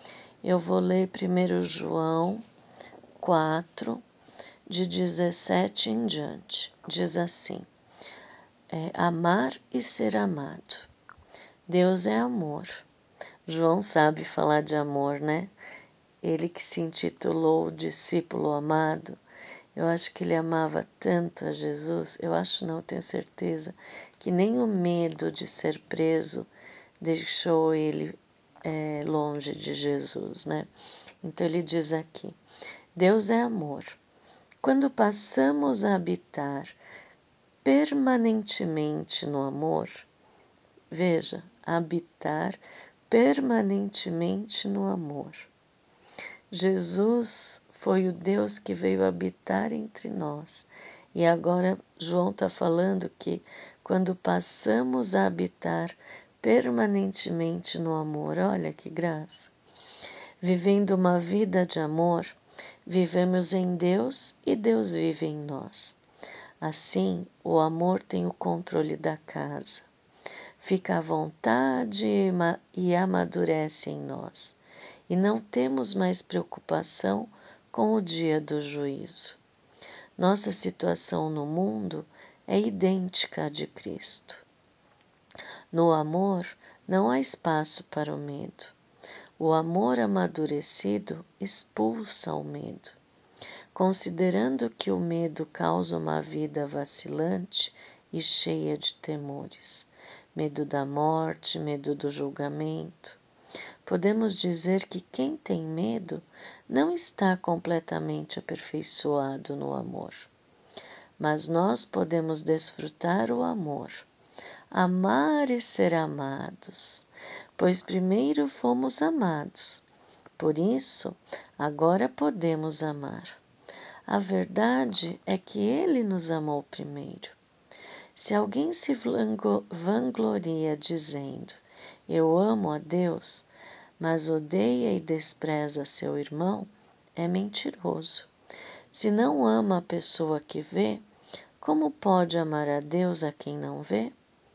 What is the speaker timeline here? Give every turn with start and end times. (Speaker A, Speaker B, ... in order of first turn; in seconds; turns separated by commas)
Speaker A: 0.4-2.4, Speaker A: 3.2-4.0, Speaker A: 4.7-7.7, Speaker A: 8.7-10.9, Speaker A: 11.7-12.8, Speaker A: 13.4-15.5, Speaker A: 16.2-19.2, Speaker A: 19.7-26.5, Speaker A: 27.0-30.7, Speaker A: 31.2-32.4, Speaker A: 32.9-34.0, Speaker A: 34.6-36.8, Speaker A: 37.6-40.1, Speaker A: 40.9-45.5, Speaker A: 46.5-59.5, Speaker A: 60.4-66.0, Speaker A: 66.6-69.9, Speaker A: 70.6-79.4, Speaker A: 80.2-84.4, Speaker A: 85.7-88.8, Speaker A: 89.4-93.0, Speaker A: 93.7-103.2, Speaker A: 103.8-110.3, Speaker A: 111.2-114.1, Speaker A: 114.7-119.8, Speaker A: 120.4-123.4, Speaker A: 124.1-127.3, Speaker A: 128.1-138.3, Speaker A: 138.9-141.0, Speaker A: 141.6-144.1